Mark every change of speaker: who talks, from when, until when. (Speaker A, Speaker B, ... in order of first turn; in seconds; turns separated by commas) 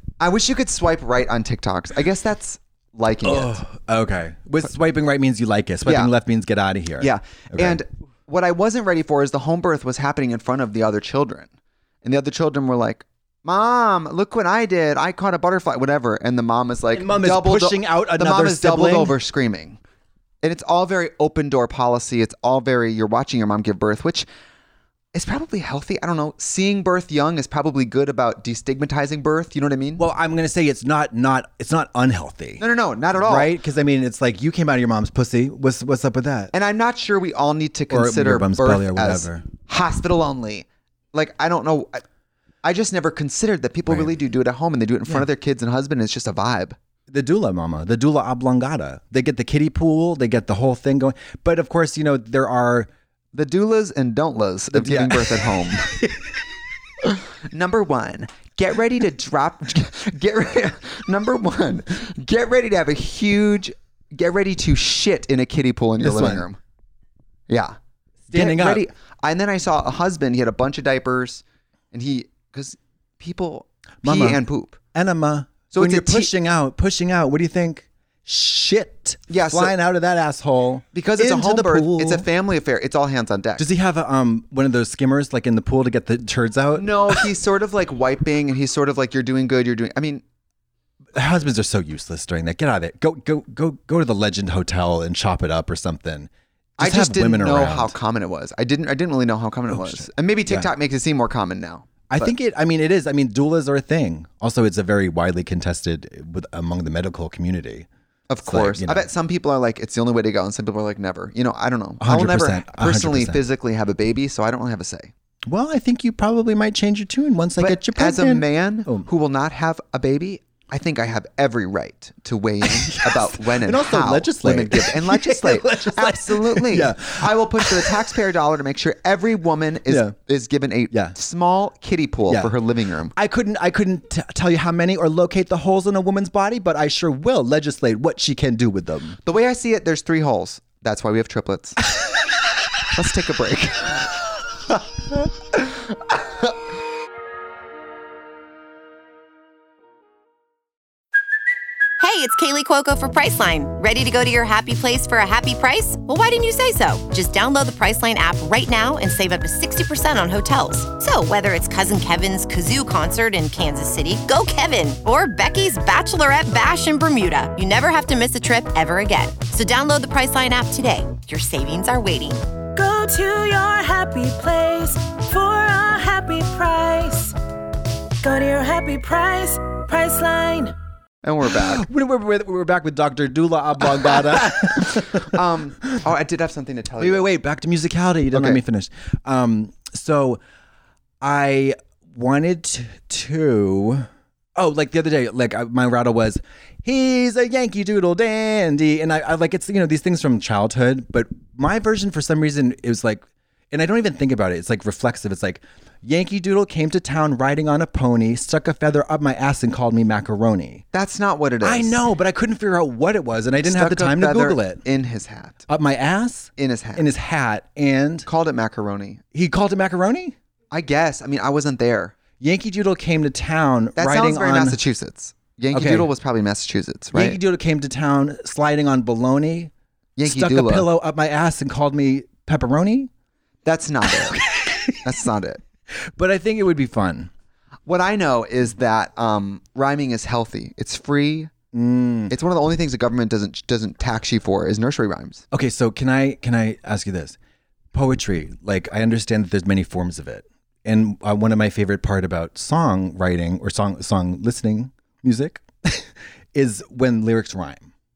Speaker A: 0.2-3.6, Speaker B: 3.2-7.8, Speaker A: 5.8-6.1, Speaker A: 7.0-11.5, Speaker A: 12.0-19.8, Speaker B: 16.9-19.2, Speaker A: 20.4-24.3, Speaker A: 25.1-30.1, Speaker B: 30.0-32.6, Speaker A: 32.6-33.5, Speaker B: 33.2-36.5, Speaker A: 36.5-42.0, Speaker B: 37.9-39.5, Speaker A: 42.6-46.8, Speaker B: 43.9-44.1, Speaker B: 47.1-52.9, Speaker A: 53.3-55.9, Speaker B: 54.7-56.2, Speaker A: 57.5-66.6, Speaker B: 66.0-66.5, Speaker A: 67.5-67.8, Speaker B: 68.3-68.8, Speaker A: 68.3-74.8, Speaker B: 74.0-74.4, Speaker B: 74.9-82.3, Speaker A: 75.7-76.3, Speaker A: 79.3-79.8, Speaker A: 80.9-83.7, Speaker B: 83.6-87.3, Speaker A: 86.8-90.2, Speaker B: 91.1-98.0, Speaker A: 96.8-102.3, Speaker B: 99.7-100.7, Speaker B: 102.1-107.9, Speaker A: 108.3-115.1, Speaker B: 108.5-109.1, Speaker B: 112.0-113.4, Speaker B: 115.5-119.1, Speaker A: 117.6-133.1, Speaker B: 122.6-128.2, Speaker B: 129.9-130.2, Speaker B: 132.3-132.6, Speaker B: 133.1-139.2, Speaker A: 139.2-141.8, Speaker A: 142.9-144.1, Speaker A: 145.5-146.5, Speaker C: 152.0-172.4, Speaker D: 172.8-177.4, Speaker D: 178.2-180.8, Speaker A: 181.2-181.8, Speaker B: 181.5-186.0, Speaker A: 184.1-187.3, Speaker B: 187.0-190.4, Speaker A: 188.3-188.6, Speaker B: 191.2-210.8, Speaker A: 210.9-212.0, Speaker B: 211.6-214.8, Speaker A: 213.6-215.7, Speaker B: 215.7-218.3, Speaker A: 216.6-217.1, Speaker A: 218.3-219.2, Speaker B: 219.3-220.4, Speaker A: 220.7-222.2, Speaker B: 222.4-224.8, Speaker A: 224.0-227.4, Speaker B: 225.7-226.1, Speaker B: 227.1-229.7, Speaker A: 230.2-230.9, Speaker B: 230.2-233.1, Speaker A: 233.7-234.4, Speaker B: 234.1-235.1, Speaker A: 235.0-235.6, Speaker B: 236.0-237.3, Speaker A: 237.9-241.5, Speaker B: 241.7-242.3, Speaker A: 242.3-245.4, Speaker B: 245.5-247.4, Speaker B: 247.9-257.9